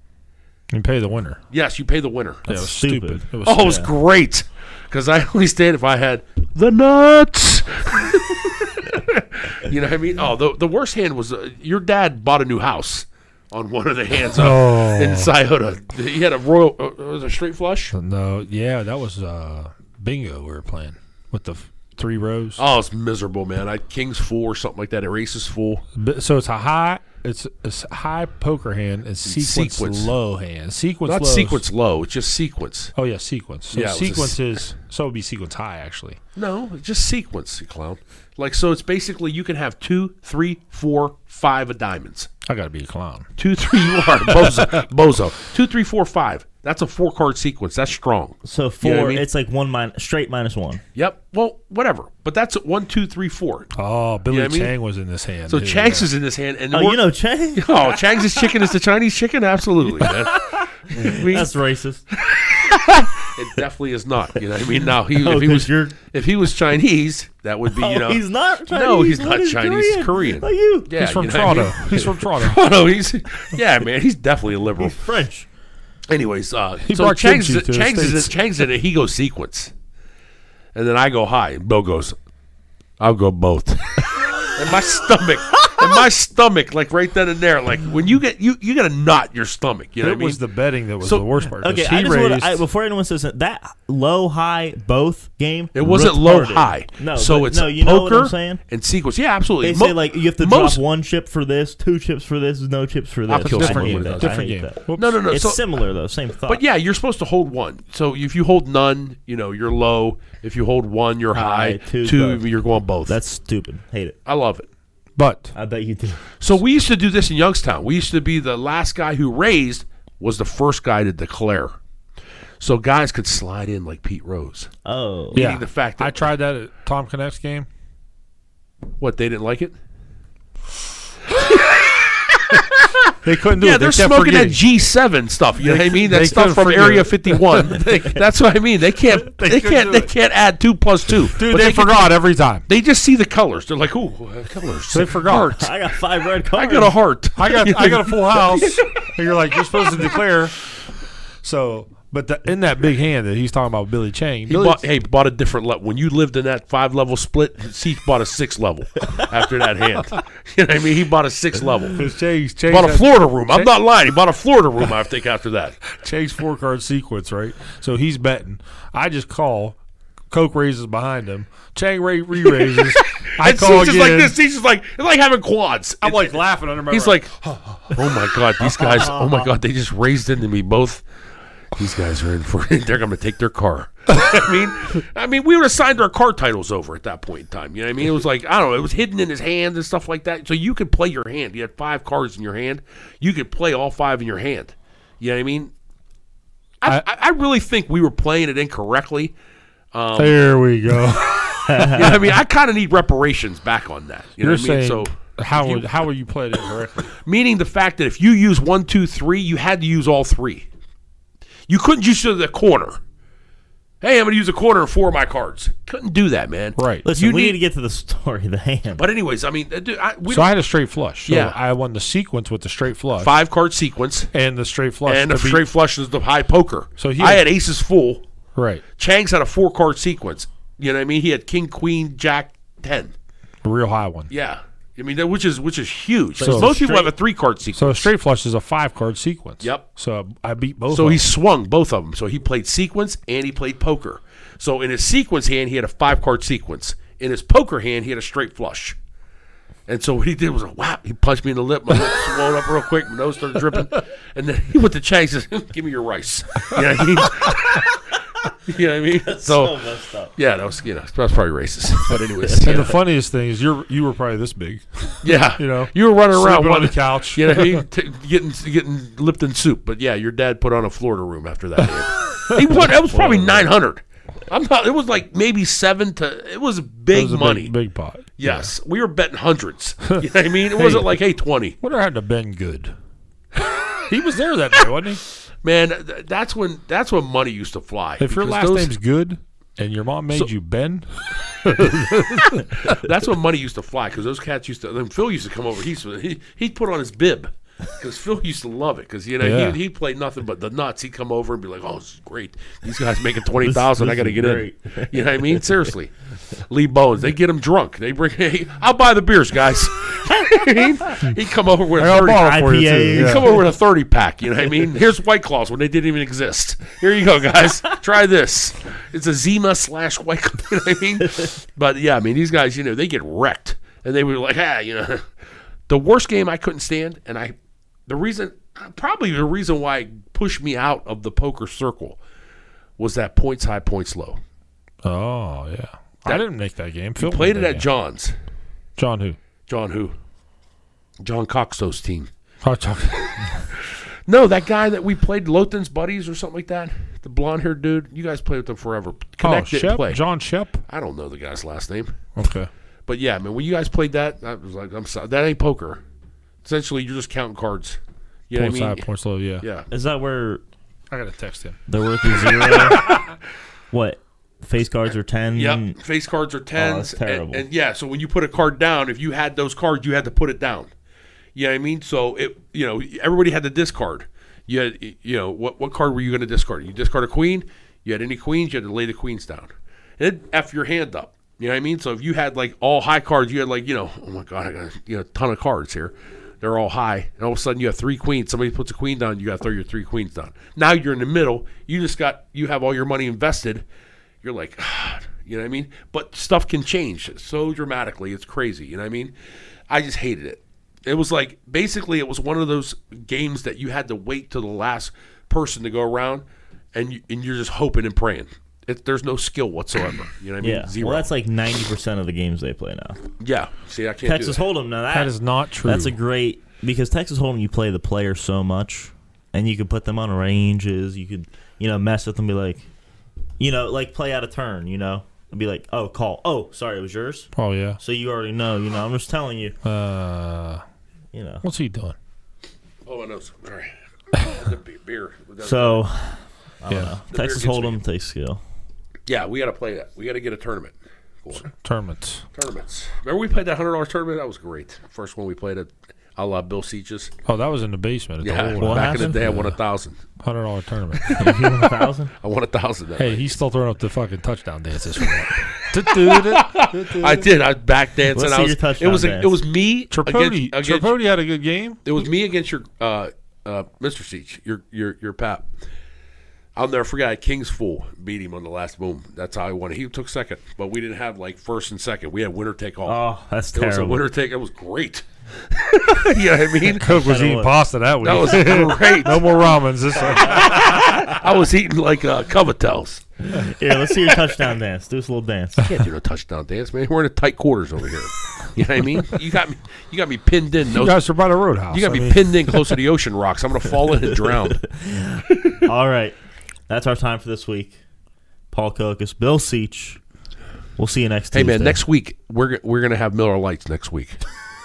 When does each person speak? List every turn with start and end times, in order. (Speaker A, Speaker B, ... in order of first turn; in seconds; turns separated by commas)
Speaker A: 0.7-1.4, Speaker B: 1.5-2.6, Speaker A: 2.5-3.9, Speaker C: 2.5-3.9, Speaker B: 3.4-17.9, Speaker A: 14.3-15.3, Speaker A: 17.9-22.6, Speaker B: 22.6-25.8, Speaker A: 25.9-31.6, Speaker B: 29.2-30.1, Speaker B: 31.1-32.9, Speaker A: 33.0-36.2, Speaker B: 33.7-34.6, Speaker B: 36.4-42.3, Speaker A: 42.5-43.3, Speaker B: 43.4-49.2, Speaker A: 44.2-44.8, Speaker C: 48.4-50.8, Speaker B: 51.0-53.7, Speaker A: 53.8-56.1, Speaker B: 54.3-54.7, Speaker B: 55.5-61.5, Speaker C: 56.7-58.7, Speaker C: 60.4-62.0, Speaker B: 62.2-75.0, Speaker C: 65.1-66.0, Speaker C: 67.7-70.9, Speaker A: 71.0-72.6, Speaker C: 74.8-75.5, Speaker B: 76.1-79.7, Speaker A: 76.8-78.4, Speaker B: 80.8-82.2, Speaker B: 83.0-90.4, Speaker C: 85.6-86.0, Speaker A: 90.0-92.6, Speaker B: 91.0-91.3, Speaker C: 91.6-98.6, Speaker B: 95.7-100.8, Speaker C: 99.6-106.6, Speaker B: 103.3-104.4, Speaker A: 103.4-105.2, Speaker B: 105.0-105.6, Speaker B: 106.5-113.2, Speaker C: 111.3-112.5, Speaker C: 113.1-114.2, Speaker B: 114.3-114.7, Speaker A: 115.2-115.5, Speaker C: 115.5-116.4, Speaker B: 116.4-121.8, Speaker B: 122.6-124.7, Speaker C: 124.8-125.5, Speaker B: 125.3-126.2, Speaker A: 125.3-127.7, Speaker B: 129.0-129.8, Speaker B: 131.3-142.1, Speaker A: 133.2-134.6, Speaker A: 135.6-138.0, Speaker A: 139.1-140.1, Speaker A: 141.3-142.7, Speaker B: 142.7-145.7, Speaker A: 144.9-145.6, Speaker C: 145.4-147.0, Speaker B: 146.5-148.9, Speaker A: 147.4-150.7, Speaker A: 151.4-154.8, Speaker B: 154.5-162.0, Speaker A: 161.9-163.7, Speaker B: 162.7-165.8, Speaker A: 165.9-169.8, Speaker A: 170.3-174.4, Speaker B: 172.6-177.3, Speaker A: 176.0-178.2, Speaker B: 177.9-181.0, Speaker C: 178.7-179.5, Speaker B: 181.8-195.7, Speaker B: 196.8-199.3, Speaker B: 199.9-200.4, Speaker A: 200.2-202.2, Speaker C: 201.7-202.2, Speaker B: 201.9-205.9, Speaker A: 204.4-207.1, Speaker B: 207.2-210.7, Speaker B: 211.7-213.0, Speaker B: 214.0-217.6, Speaker A: 216.8-217.1, Speaker C: 217.0-219.1, Speaker B: 219.0-220.5, Speaker A: 220.3-223.4, Speaker B: 221.3-221.6, Speaker B: 223.2-224.3, Speaker A: 224.3-225.7, Speaker B: 225.1-228.2, Speaker A: 227.0-227.5, Speaker A: 228.6-228.8, Speaker B: 229.0-233.2, Speaker A: 233.6-234.3, Speaker B: 234.3-238.1, Speaker C: 236.4-237.1, Speaker A: 236.4-236.7, Speaker A: 237.8-241.3, Speaker B: 240.9-249.0, Speaker B: 249.9-258.0, Speaker B: 258.6-259.8, Speaker C: 259.2-260.4, Speaker B: 260.4-263.0, Speaker C: 262.4-262.9, Speaker A: 262.5-267.8, Speaker B: 265.2-277.7, Speaker A: 272.6-272.9, Speaker C: 273.1-273.6, Speaker A: 277.1-278.7, Speaker B: 278.4-281.8, Speaker A: 280.8-281.1, Speaker A: 281.8-282.9, Speaker A: 284.1-285.2, Speaker B: 285.6-288.9, Speaker A: 288.2-293.0, Speaker B: 292.4-312.6, Speaker A: 299.4-299.8, Speaker C: 303.6-305.9, Speaker A: 312.0-313.6, Speaker C: 312.4-313.6, Speaker B: 313.1-325.3, Speaker B: 325.9-327.6, Speaker B: 328.1-332.2, Speaker B: 333.0-334.4, Speaker A: 335.0-337.9, Speaker B: 337.2-338.4, Speaker A: 339.0-339.4, Speaker B: 339.7-340.1, Speaker B: 341.2-342.3, Speaker A: 342.6-343.7, Speaker B: 343.8-350.2, Speaker A: 349.4-350.8, Speaker B: 350.9-352.2, Speaker A: 352.4-352.7, Speaker B: 353.1-356.0, Speaker B: 356.6-358.0, Speaker B: 358.5-359.1, Speaker A: 358.6-359.6, Speaker B: 359.6-359.9, Speaker C: 359.9-360.6, Speaker A: 361.1-361.8, Speaker C: 361.9-363.1, Speaker A: 362.5-363.3, Speaker C: 363.9-366.0, Speaker B: 365.6-370.9, Speaker C: 366.8-367.7, Speaker B: 371.6-393.9, Speaker B: 394.4-399.3, Speaker B: 399.9-411.3, Speaker C: 410.6-413.2, Speaker B: 413.4-414.6, Speaker C: 414.2-422.8, Speaker A: 415.1-416.1, Speaker C: 423.6-429.8, Speaker A: 427.6-428.0, Speaker A: 429.9-430.8, Speaker C: 431.3-431.6, Speaker A: 431.6-432.1, Speaker B: 433.1-436.1, Speaker C: 435.6-438.6, Speaker A: 436.9-437.1, Speaker B: 437.3-438.0, Speaker B: 439.3-441.7, Speaker A: 441.6-442.4, Speaker B: 442.5-447.3, Speaker A: 447.5-449.8, Speaker B: 448.4-450.2, Speaker C: 448.8-449.4, Speaker A: 450.4-451.6, Speaker B: 451.3-451.5, Speaker C: 451.4-452.3, Speaker B: 452.4-453.5, Speaker A: 453.2-457.5, Speaker B: 456.0-461.1, Speaker C: 458.3-459.6, Speaker A: 460.1-462.0, Speaker B: 462.1-465.7, Speaker B: 466.8-477.1, Speaker C: 473.1-474.2, Speaker A: 477.0-481.1, Speaker C: 477.1-477.8, Speaker B: 478.2-479.5, Speaker B: 480.4-483.2, Speaker C: 483.5-485.8, Speaker B: 485.8-491.3, Speaker A: 490.9-493.0, Speaker B: 491.9-494.9, Speaker C: 494.3-496.4, Speaker B: 495.5-495.9, Speaker C: 496.9-498.0, Speaker C: 498.7-500.2, Speaker C: 501.0-502.0, Speaker B: 501.5-504.4